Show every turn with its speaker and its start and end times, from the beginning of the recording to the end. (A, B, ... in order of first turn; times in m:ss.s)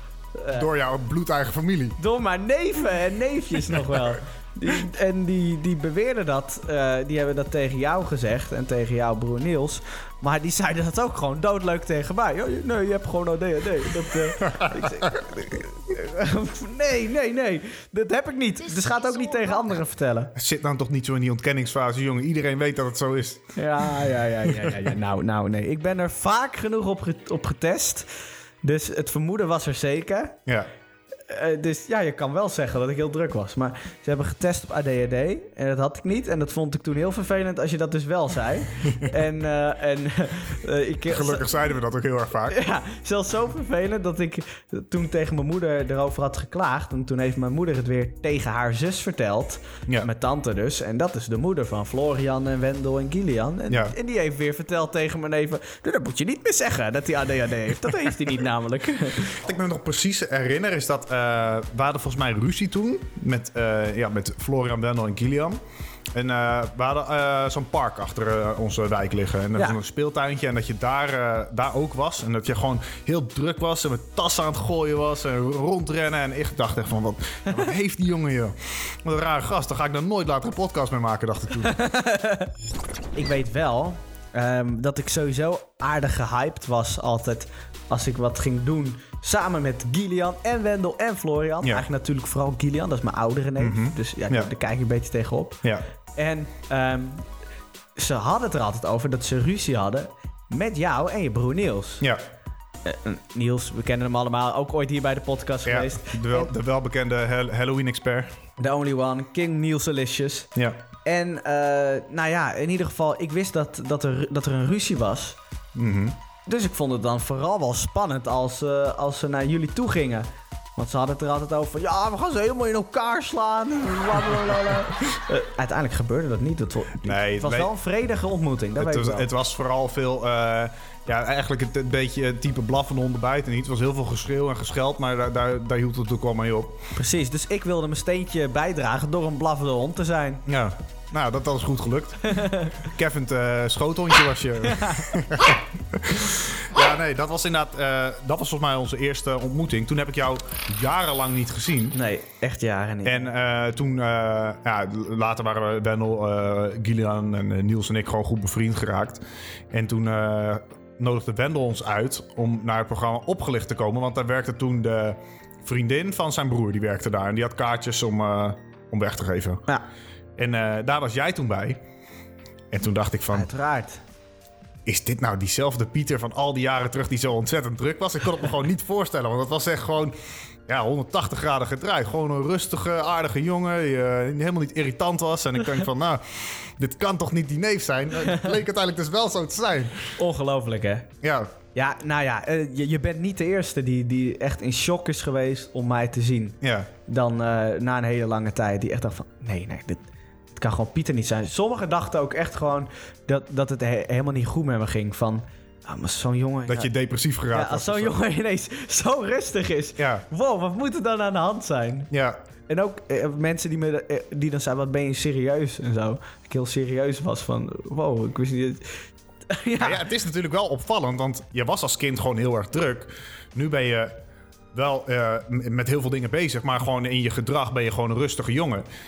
0:00.3-0:00.7 A
0:00.5-0:02.0 B
0:02.0-0:20.3 A
0:14.5-0:15.1 B
0:20.3-0:24.8 B
0:23.6-0:28.1 A
0:28.6-0:30.4 A
0:31.3-0:41.5 A
0:41.1-0:42.6 B
0:42.5-0:59.4 A
0:53.7-0:53.9 B
0:59.4-1:05.6 B
1:06.1-1:21.8 B
1:21.6-1:22.5 A
1:23.2-1:35.6 A
1:33.6-1:34.5 B
1:36.2-1:37.2 A
1:38.0-1:42.0 A
1:42.8-1:46.5 A
1:45.6-1:48.4 B
1:48.6-1:50.5 A
1:51.0-1:55.4 A
1:55.7-1:56.2 B
1:56.4-2:09.3 A
2:07.0-2:07.7 B
2:08.8-2:16.8 B
2:16.9-2:20.4 A
2:20.4-2:32.0 B
2:22.3-2:22.7 A
2:24.7-2:25.0 A
2:31.9-2:33.2 A
2:33.0-2:49.6 B
2:50.4-2:51.8 B
2:52.7-2:53.5 B
2:53.3-2:54.0 A
2:54.8-3:00.2 B
3:00.7-3:10.1 B
3:08.2-3:08.5 A
3:10.2-3:11.1 A
3:11.2-3:11.5 B
3:11.7-3:20.0 A
3:16.6-3:16.9 B
3:20.6-3:26.9 A
3:26.7-3:28.2 B
3:27.5-3:32.1 A
3:30.0-3:30.2 B
3:32.1-3:32.4 B
3:32.7-3:40.0 A
3:39.8-3:44.2 B
3:44.7-3:48.8 B